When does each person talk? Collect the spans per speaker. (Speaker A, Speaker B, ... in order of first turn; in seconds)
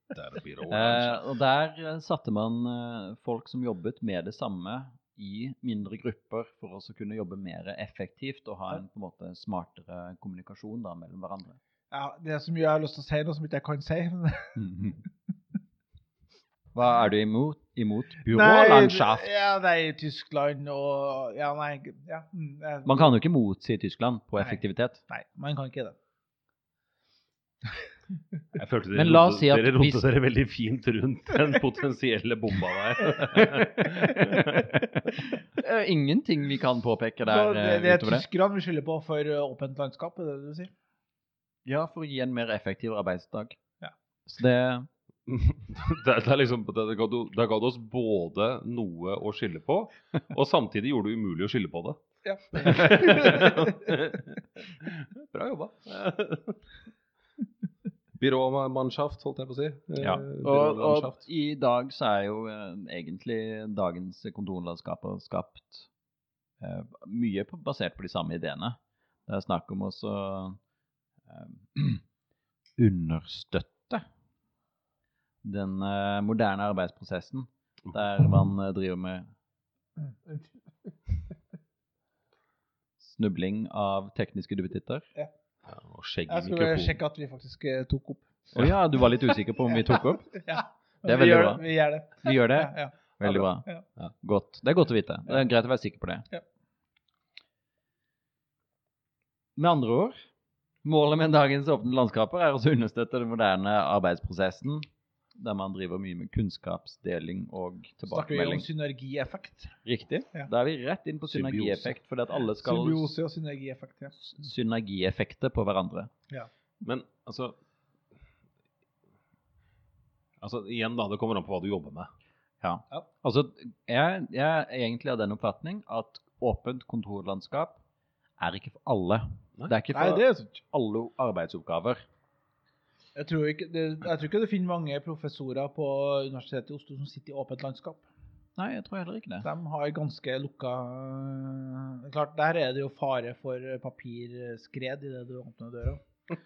Speaker A: 0.1-1.2, 28.5-34.7, 45.3-52.0, 52.5-56.6, 58.2-61.2, 85.7-87.0, 111.3-112.0, 116.8-117.5, 120.4-122.1
Speaker B: 0.7-11.6, 14.6-15.0, 16.7-19.3, 22.8-25.0, 28.9-30.0, 34.3-34.8, 35.4-38.2, 41.6-43.6, 44.2-44.9, 60.0-65.9, 66.6-70.6, 71.3-72.0, 72.8-74.0, 75.4-79.3, 83.0-85.0, 88.5-90.4, 91.0-93.7, 94.2-96.2, 99.5-100.2, 100.8-108.7, 109.8-113.1, 114.2-116.1, 122.6-127.8, 128.4-132.0, 138.6-139.5
Speaker C: 11.9-14.6, 18.3-23.1, 24.4-25.9, 37.2-40.7, 52.2-53.9, 86.3-88.5, 90.3-93.8, 108.1-109.8, 112.6-114.2, 129.9-130.6, 133.2-138.1, 139.4-146.0